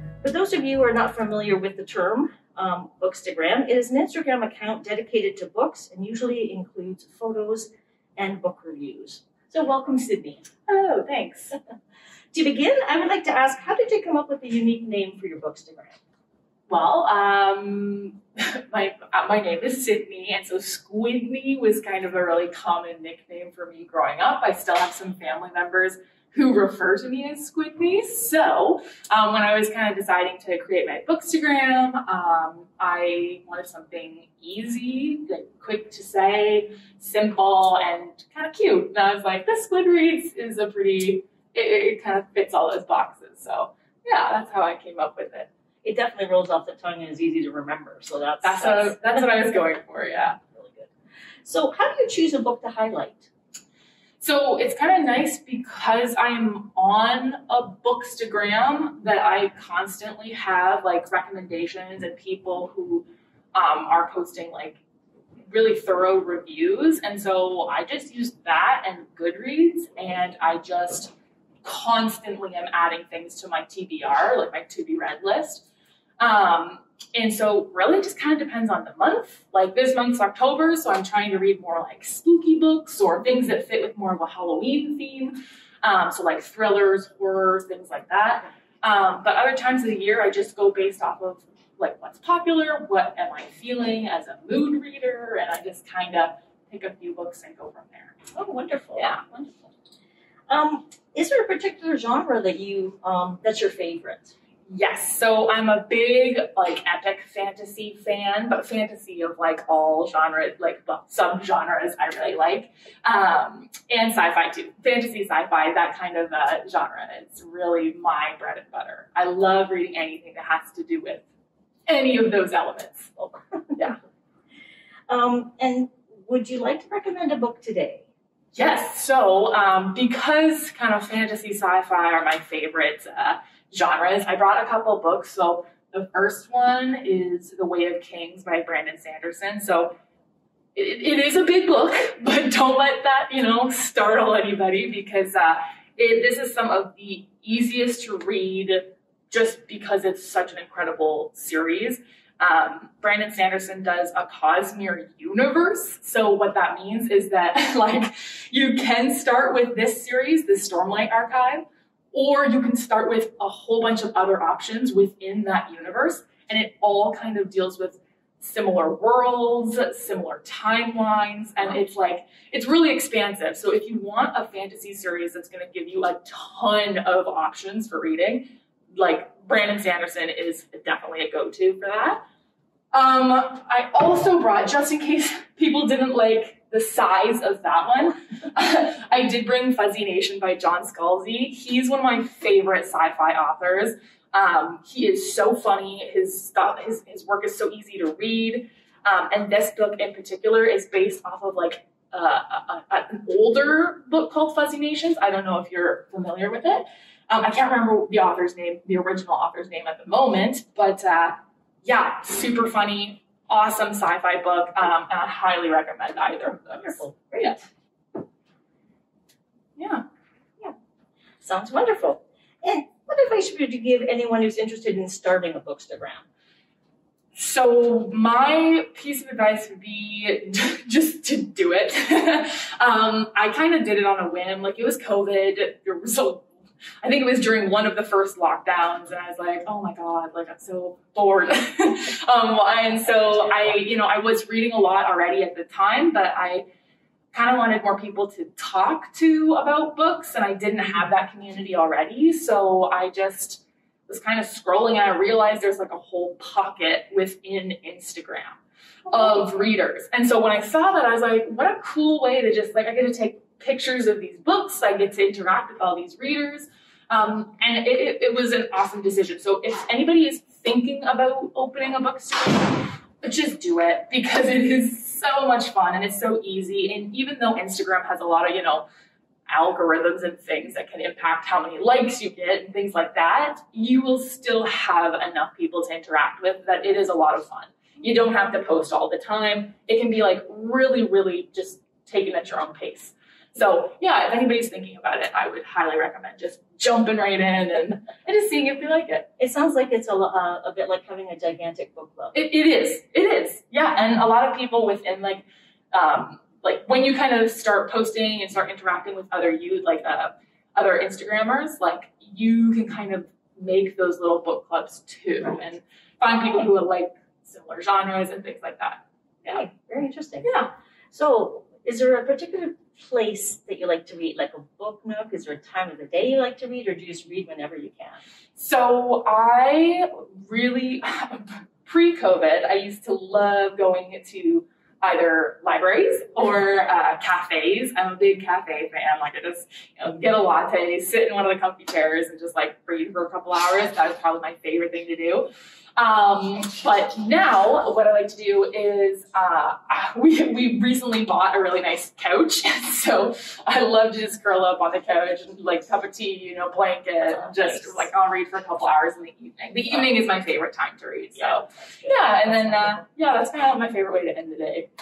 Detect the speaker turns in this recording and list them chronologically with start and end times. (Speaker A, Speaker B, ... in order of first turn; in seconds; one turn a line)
Speaker A: 0.2-10.5
Speaker B: 10.7-11.6
Speaker A: 12.3-16.0
Speaker B: 16.7-45.5
Speaker A: 45.8-49.6
Speaker B: 48.4-50.4
Speaker A: 50.6-50.9
Speaker A: 51.4-53.3
Speaker B: 54.2-64.8
Speaker B: 65.5-71.1
Speaker B: 71.6-75.7
Speaker B: 76.2-98.2
Speaker A: 98.3-99.6
Speaker B: 99.0-99.2
Speaker A: 100.5-104.3
Speaker B: 104.7-121.2
Speaker B: 121.9-123.9
Speaker A: 125.1-128.1
Speaker B: 128.5-140.0
Speaker B: 140.8-182.2
Speaker B: 182.9-217.6
Speaker A: 216.3-217.7
Speaker B: 219.8-220.1
Speaker A: 221.4-226.3
Speaker B: 227.3-236.5
Speaker B: 237.0-246.7
Speaker B: 247.3-258.6
Speaker B: 259.1-272.7
Speaker B: 273.2-278.9
Speaker B: 279.5-299.3
Speaker A: 299.4-302.4
Speaker B: 302.3-319.6
Speaker A: 319.4-328.2
Speaker B: 320.4-320.7
Speaker B: 328.6-364.9
Speaker A: 357.3-358.1
Speaker A: 359.7-360.1
Speaker A: 361.3-363.1